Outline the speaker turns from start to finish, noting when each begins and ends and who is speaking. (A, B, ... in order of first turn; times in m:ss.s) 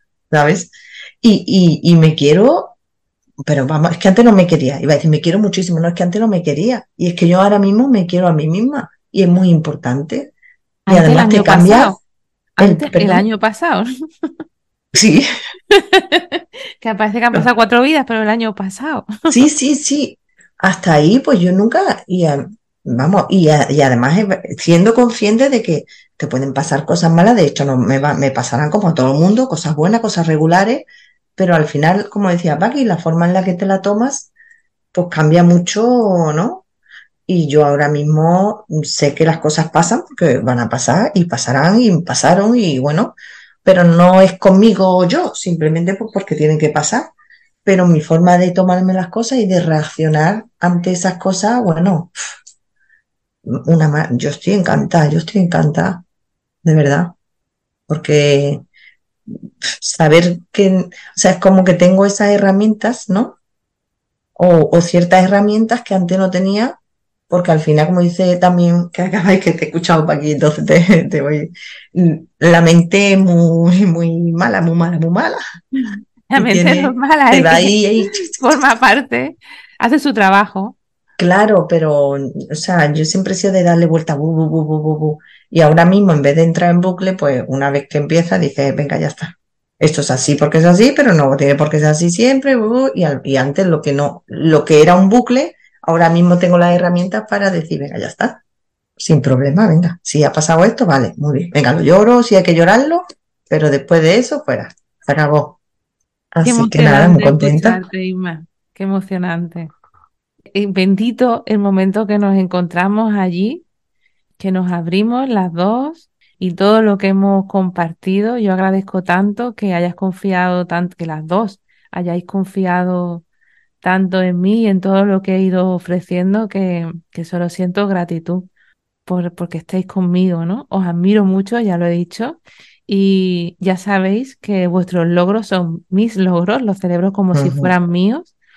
0:00.3-0:02.7 A
0:03.4-0:10.3 A
0:10.8-0:12.0 B
0:10.9-0:12.0 A
0:12.6-0:13.9 B
0:12.6-0:13.2 A
0:14.9-0:15.2 A
0:15.7-0:19.4 B
0:19.3-0:30.8 A
0:31.4-0:34.3 A
0:34.9-0:36.6 A
0:37.3-0:47.1 A
0:47.6-0:52.1 A
0:53.4-0:56.0 A
0:56.6-0:57.1 A
0:57.9-0:58.6 A
0:59.3-1:03.4 A
1:04.4-1:06.8 A
1:07.3-1:15.4 A
1:15.8-1:20.8 B
1:16.4-1:18.5 A
1:21.2-1:38.4 A
1:39.0-1:45.6 A
1:46.3-1:47.8 A
1:46.4-1:49.7 B
1:50.5-1:53.6 B
1:54.4-2:03.2 B
2:03.8-2:08.5 B
2:09.0-2:18.3 B
2:17.3-2:17.7 A